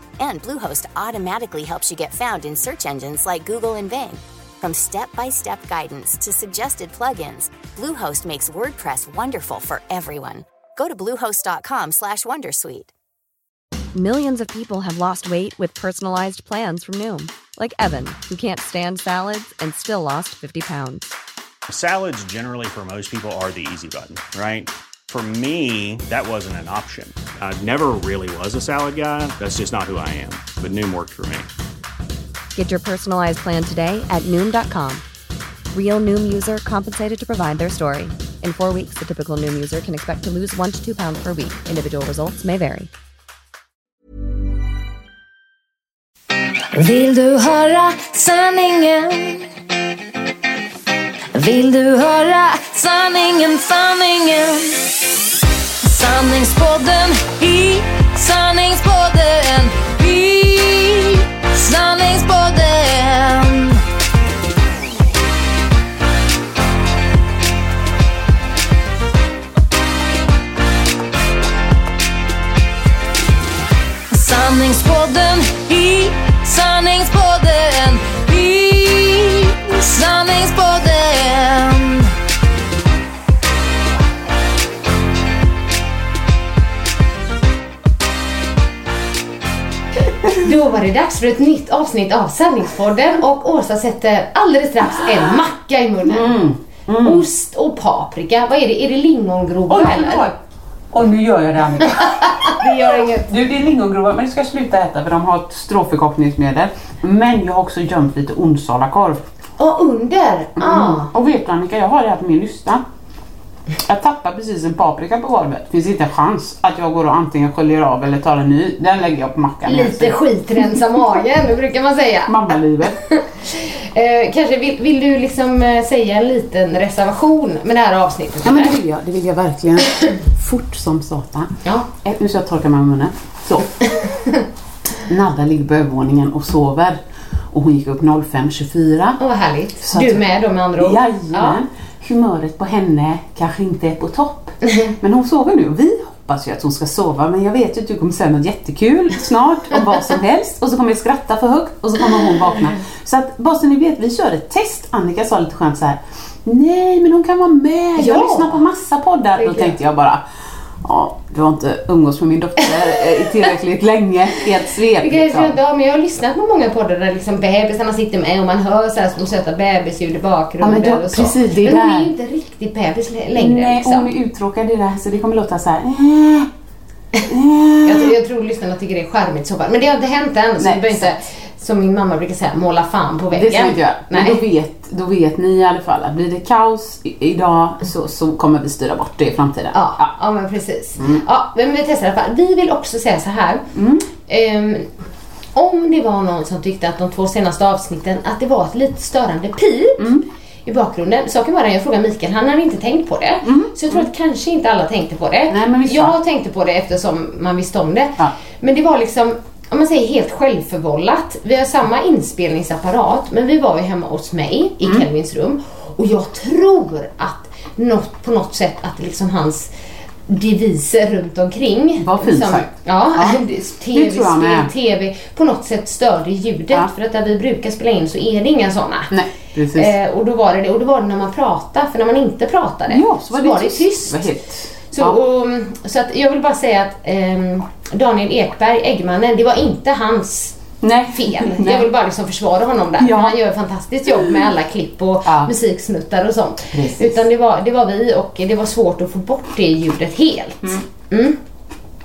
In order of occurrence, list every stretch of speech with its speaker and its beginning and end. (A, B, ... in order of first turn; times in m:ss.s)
0:00.2-0:12.9 A
0:13.9-0:21.1 B
0:21.7-0:31.5 C
0:32.5-0:35.0 B
0:35.7-0:42.9 B
0:46.7-0:49.4 D
0:51.3-0:55.0 D
0:55.8-1:03.8 D
1:14.1-1:22.1 D
1:30.3-1:36.3 E
1:36.0-1:37.2 F
1:37.0-1:40.3 E
1:39.7-1:40.4 F
1:40.9-1:49.2 F
1:42.2-1:43.2 E
1:49.6-1:51.1 E
1:50.6-1:52.8 F
1:53.8-2:00.8 F
1:59.6-2:08.7 E
2:02.2-2:03.0 F
2:08.4-2:13.7 F
2:14.0-2:14.4 E
2:15.0-2:17.0 F
2:17.5-2:19.2 F
2:19.2-2:21.6 E
2:19.8-2:20.2 F
2:20.8-2:40.2 F
2:24.6-2:24.9 E
2:38.0-2:38.6 E
2:39.4-2:39.7 E
2:40.8-2:45.5 F
2:45.0-2:54.1 E
2:50.6-2:52.1 F
2:53.3-2:56.5 F
2:57.2-2:58.1 F
2:57.8-3:04.4 E
3:00.6-3:01.1 F
3:03.3-3:10.1 F
3:09.7-3:13.6 E
3:11.0-3:11.2 F
3:13.7-3:14.1 F
3:14.3-3:14.9 E
3:15.5-3:20.1 E
3:20.0-3:20.2 F
3:20.6-3:39.7 E
3:23.4-3:24.1 F
3:25.5-3:26.2 F
3:40.3-3:49.1 E
3:42.0-3:43.4 F
3:43.9-3:44.7 F
3:49.1-3:49.9 F
3:49.7-3:54.2 E
3:52.9-3:55.2 F
3:54.9-4:00.6 E
4:00.8-4:01.9 F
4:01.1-4:11.4 E
4:03.0-4:03.4 F
4:05.2-4:05.5 F
4:06.7-4:07.2 F